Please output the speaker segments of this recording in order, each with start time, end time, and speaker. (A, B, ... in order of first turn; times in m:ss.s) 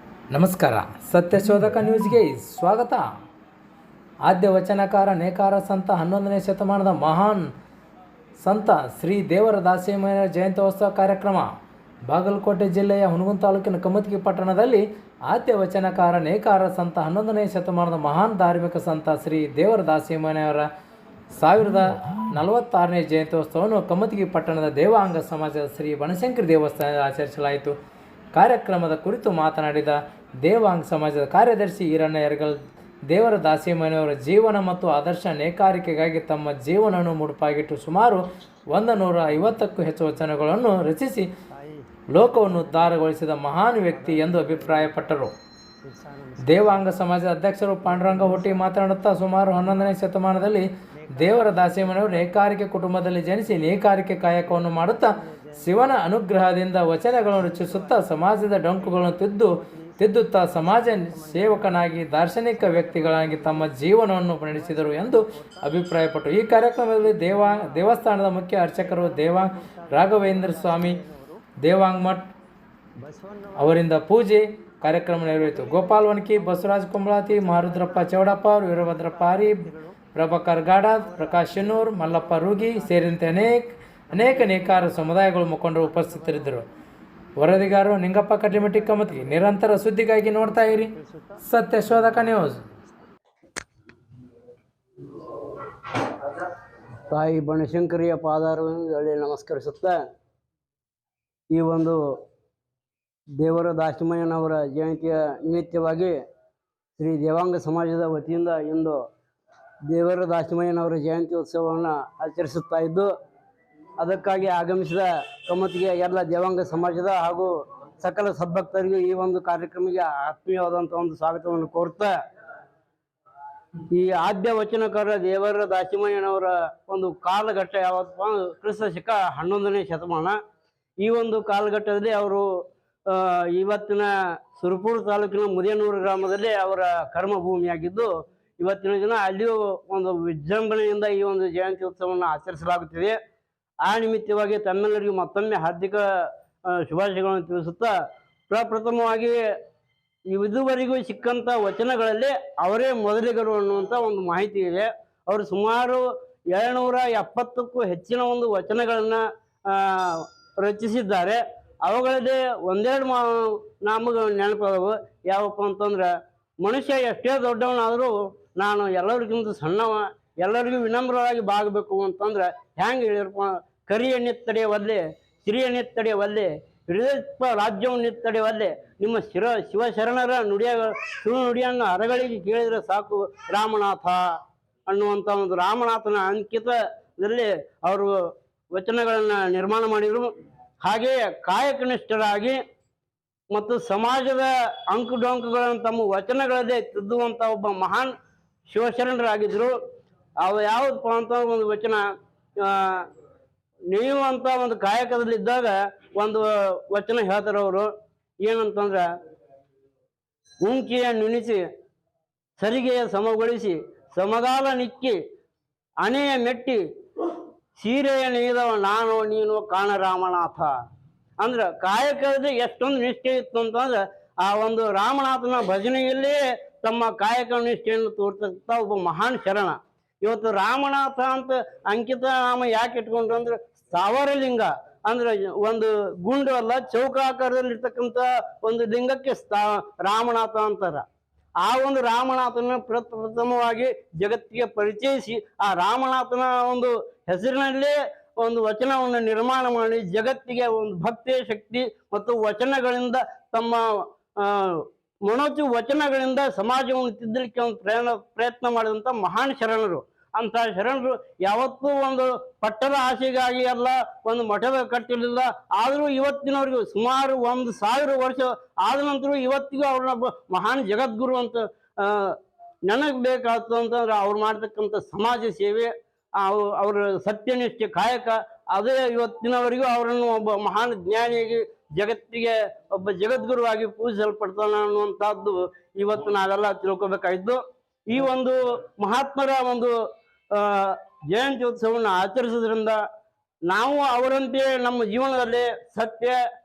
0:00.3-0:03.0 A
0:04.2-0:07.5 A
0:08.4-0:11.5 A
0:12.1-0:20.7 A
0:21.3-0:27.7 A
0:28.3-0:32.6 A
0:33.1-0:41.3 A
0:41.5-0:41.8 B
0:42.1-0:45.3 A
0:44.0-0:44.8 B
0:45.8-0:46.9 B
0:46.4-1:11.0 A
0:48.0-0:48.6 B
0:51.0-0:51.5 B
0:54.6-0:55.8 B
0:57.4-0:57.9 B
0:58.9-1:01.8 B
1:02.6-1:03.6 B
1:04.5-1:05.7 B
1:07.2-1:07.9 B
1:08.9-1:11.4 B
1:11.6-1:12.3 A
1:13.0-1:13.6 B
1:13.6-1:26.6 A
1:17.4-1:18.2 B
1:18.8-1:19.9 B
1:21.0-1:23.5 B
1:24.2-1:25.0 B
1:25.8-1:26.6 B
1:27.4-1:32.6 A
1:28.6-1:29.7 B
1:30.4-1:32.2 B
1:37.1-1:40.0 B
1:41.5-1:42.0 B
1:43.4-1:46.2 B
1:47.0-1:49.0 B
1:49.9-1:53.1 B
1:54.0-2:02.1 B
2:03.9-2:10.4 B
2:11.0-2:12.4 B
2:13.1-2:23.2 B
2:23.8-2:27.9 B
2:28.5-2:29.4 B
2:30.3-2:46.1 B
2:46.6-3:04.2 B
3:04.9-3:08.1 B
3:08.7-3:12.6 B
3:13.5-3:18.1 B
3:18.7-3:19.8 B
3:20.4-3:22.0 B
3:22.6-3:23.0 B
3:23.9-3:27.9 B
3:28.4-3:29.0 B
3:30.6-3:31.6 B
3:32.6-3:35.2 B
3:36.0-3:36.8 B
3:37.8-3:40.7 B
3:41.4-4:01.0 B
4:01.6-4:13.8 B
4:14.3-4:32.4 B
4:32.9-4:49.9 B
4:50.5-4:53.0 B
4:53.7-4:56.4 B